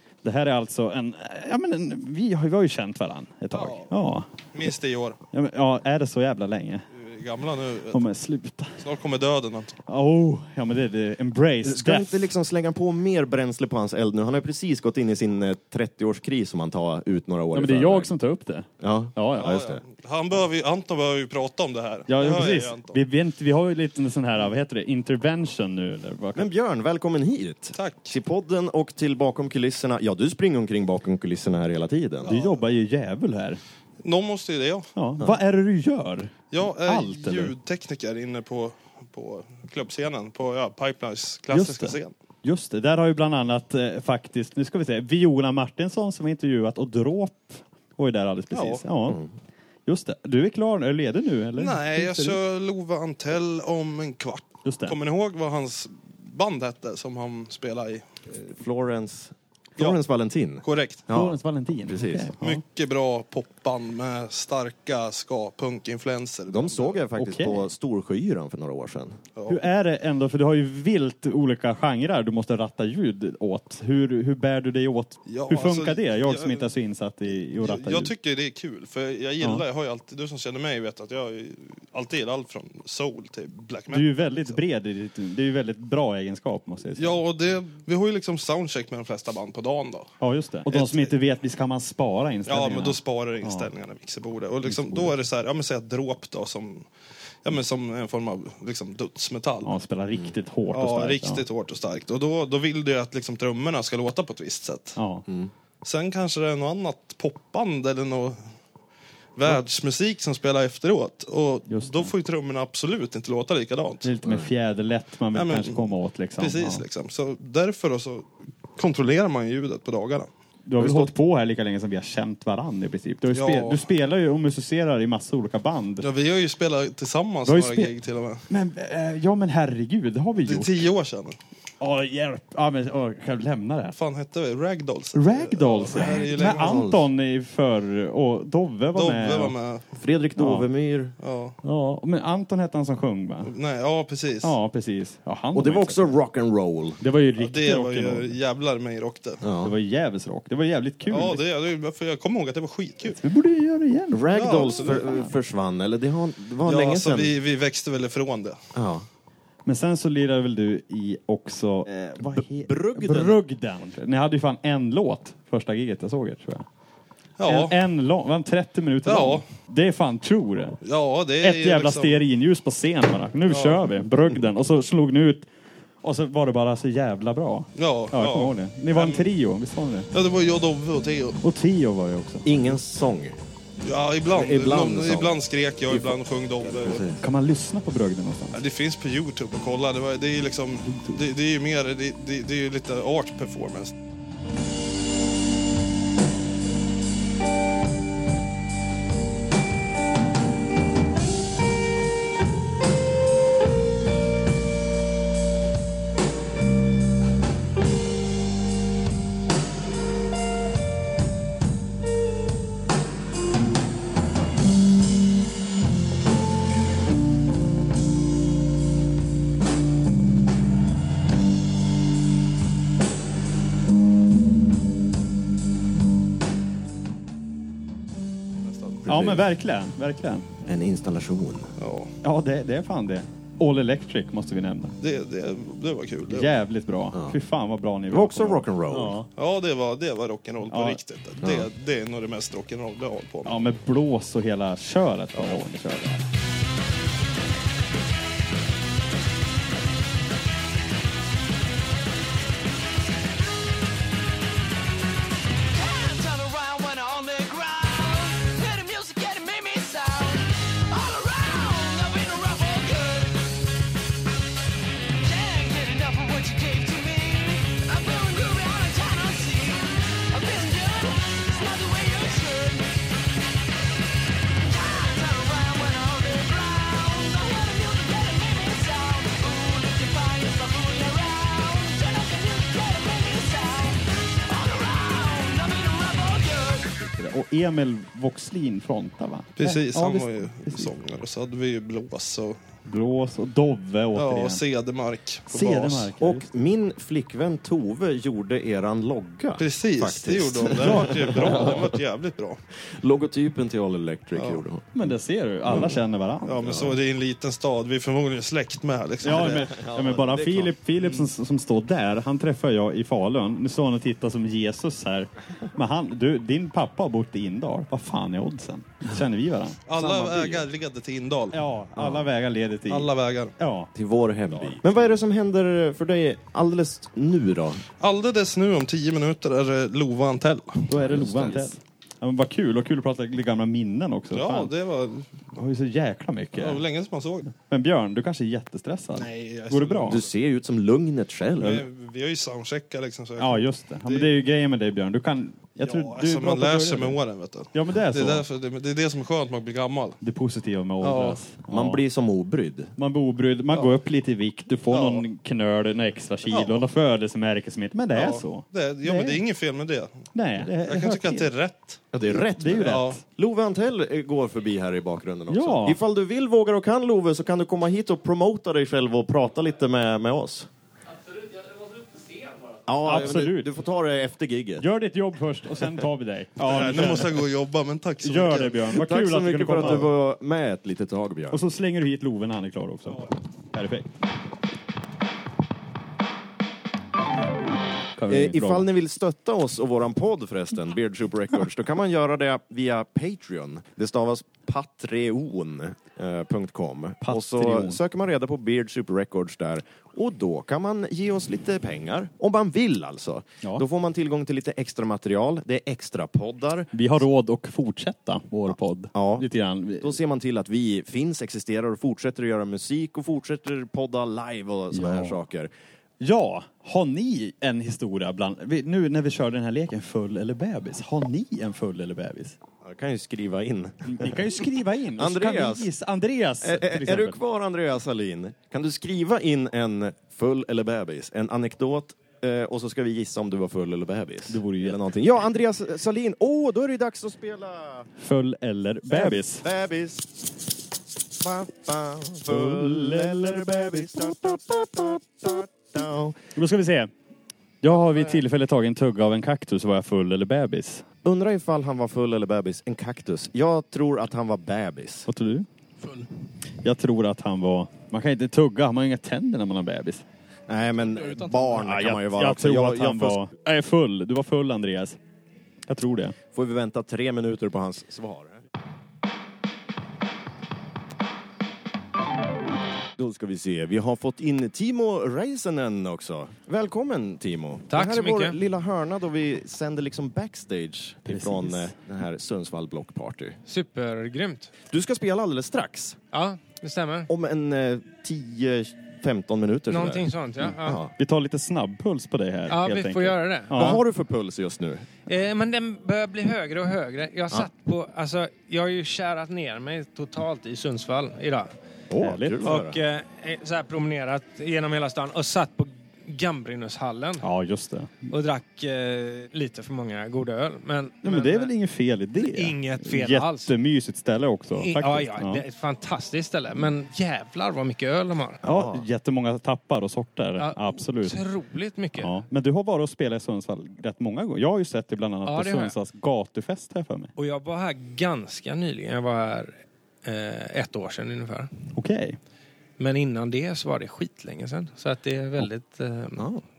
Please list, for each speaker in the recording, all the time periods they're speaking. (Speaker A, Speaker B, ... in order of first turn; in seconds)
Speaker A: 0.2-4.3, 5.3-6.8, 7.9-8.8, 9.9-12.3, 17.5-19.6, 22.1-26.5, 32.3-33.6, 35.0-37.5, 41.5-49.2, 49.9-52.4, 54.6-55.0, 61.1-62.6, 67.2-67.7, 69.5-78.1, 83.9-87.2, 90.2-93.7, 94.7-95.1, 99.6-101.4, 105.0-105.2, 111.7-112.1, 114.0-116.8, 120.7-126.0, 127.5-127.9, 128.5-130.9, 131.8-133.9, 135.1-139.5, 140.4-140.7, 141.6-143.5, 144.4-146.2, 147.0-148.3, 149.6-151.4, 153.2-155.3, 159.6-166.7, 167.4-170.8, 171.4-175.5, 176.0-180.1, 181.4-182.8, 186.9-188.6, 190.9-191.2, 229.1-230.4, 232.2-234.9, 236.3-239.3, 240.7-241.0, 243.4-246.2, 286.9-290.9, 292.9-294.6, 295.5-296.5, 300.8-301.7, 304.9-306.8, 309.2-320.6, 321.5-323.9, 324.5-324.8, 330.9-334.7, 335.5-336.8, 337.5-340.2, 343.4-347.2, 347.7-348.4, 350.2-352.0, 353.0-359.4, 360.3-361.5, 362.3-363.2, 365.5-366.0, 373.0-373.7, 374.8-377.4, 378.2-380.1, 381.5-384.1, 388.1-388.9, 397.2-398.0, 406.9-410.2, 414.9-415.4, 416.2-422.6, 424.0-427.4, 434.5-435.0, 438.2-439.6, 442.4-445.2, 446.5-447.1, 447.8-451.0, 455.3-455.7, 456.8-460.2, 461.7-465.2, 465.9-466.4, 481.2-481.9, 491.1-494.0, 502.2-502.8, 507.4-508.3, 511.2-515.6, 518.6-521.4, 522.2-527.3, 531.9-532.4
Speaker B: 3.5-3.9, 4.5-5.2, 6.9-8.0, 8.8-9.7, 19.4-23.0, 27.7-28.1, 32.2-32.6, 34.0-34.9, 36.5-42.1, 48.5-48.8, 51.6-58.0, 60.6-61.0, 62.4-67.0, 69.3-69.6, 75.3-76.7, 77.6-84.5, 87.0-90.1, 90.7-91.1, 92.5-96.9, 97.4-99.7, 100.7-105.0, 105.8-108.4, 109.3-114.1, 115.3-121.1, 123.3-123.8, 126.0-128.4, 130.4-131.3, 133.9-136.9, 138.9-139.9, 141.2-141.6, 143.4-144.5, 147.4-149.4, 151.1-153.2, 154.3-155.1, 156.6-158.6, 167.4-167.8, 169.0-169.4, 170.8-172.2, 173.5-173.8, 177.8-179.3, 180.1-181.4, 183.8-187.1, 188.5-193.9, 228.6-229.1, 231.8-232.1, 235.0-236.5, 239.4-243.6, 289.6-292.6, 294.1-296.1, 299.6-302.6, 304.3-304.6, 306.4-309.7, 319.9-321.6, 322.9-323.5, 328.0-331.4, 334.3-335.3, 336.5-337.5, 339.1-340.3, 341.6-344.3, 345.8-350.2, 351.0-351.4, 354.9-355.2, 356.5-356.8, 358.1-360.1, 360.8-362.0, 362.8-363.2, 376.6-378.8
Speaker C: 11.6-18.1, 18.8-19.8, 26.3-32.3, 58.3-61.4, 61.9-62.3, 66.5-69.2, 135.9-137.0, 140.0-141.1, 145.5-147.0, 149.4-149.7, 154.1-157.3, 158.7-159.1, 162.0-163.4, 182.4-183.4, 184.3-185.4, 186.8-187.1, 229.0-229.4, 230.6-231.7, 238.1-239.2, 241.4-241.7, 296.2-301.9, 303.0-305.0, 306.6-306.9, 309.3-310.8, 323.9-327.8, 331.0-331.7, 340.1-341.9, 351.7-352.9, 362.1-370.7, 372.9-374.9, 378.9-381.6, 388.3-406.9, 409.1-409.5, 410.0-415.7, 422.8-424.4, 425.2-425.9, 426.6-438.1, 439.1-440.3, 441.4-446.4, 451.2-455.3, 460.7-463.4, 466.5-468.6, 473.2-483.6, 484.9-486.2, 487.3-491.1, 493.7-495.1, 502.1-503.0, 518.6-519.0, 536.4-536.6
Speaker D: 255.7-263.4, 265.2-273.0, 274.6-286.9
Speaker E: 477.9-478.6, 483.7-484.7, 486.3-487.3, 489.9-491.0, 492.7-494.0, 495.3-501.7, 502.6-507.4, 508.3-511.7, 512.4-513.7, 514.8-518.6, 520.6-522.3, 525.5-525.9, 527.4-531.7, 533.0-536.5